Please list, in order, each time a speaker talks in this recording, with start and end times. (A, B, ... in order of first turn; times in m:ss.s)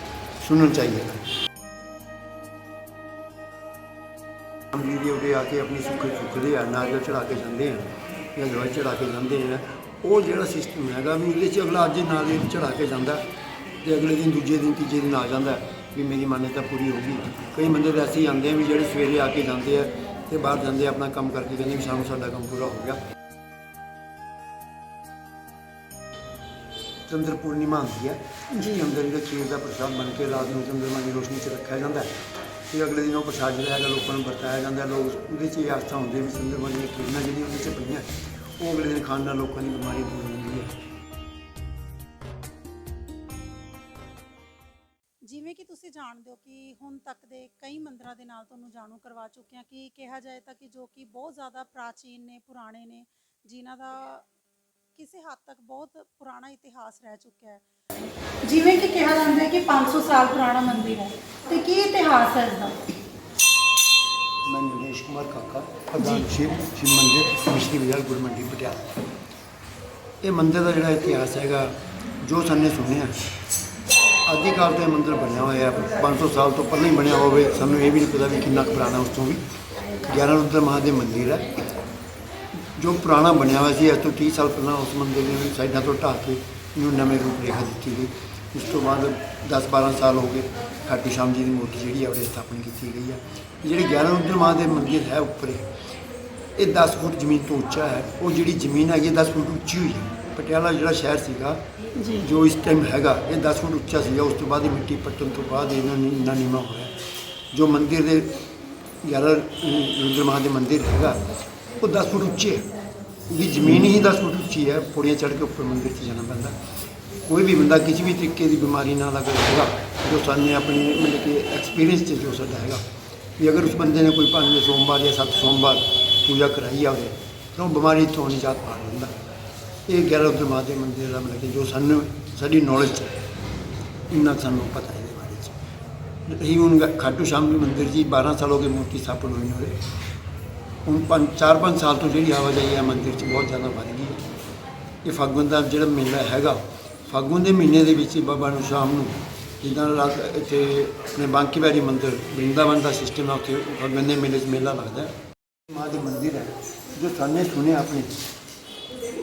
0:00.4-0:01.2 A
0:04.7-0:07.8 A
0:08.4-0:13.2 A
0:13.8-0:23.0 A
0:27.1-0:32.1 A
0:32.7-0:38.0 A
0:38.6-0:40.7 A
0:45.2-0:54.3 B
0:54.9-0:57.6 B
0:58.4-1:02.8 B
1:04.4-1:08.8 A
1:06.0-1:06.2 B
1:10.2-1:13.1 A
1:14.3-1:19.4 A
1:20.0-1:21.4 A
1:22.6-1:35.6 A
1:36.6-1:41.6 A
1:42.0-1:42.2 B
1:42.2-1:46.9 A
1:47.5-1:48.3 A
1:49.0-1:51.2 A
1:51.8-1:52.6 A
1:53.3-1:56.5 A
1:57.3-2:02.8 A
2:03.4-2:09.1 A
2:09.9-2:13.1 A
2:14.1-2:15.6 A
2:16.3-2:19.7 A
2:20.8-2:24.2 A
2:25.0-2:35.1 A
2:35.7-2:38.1 A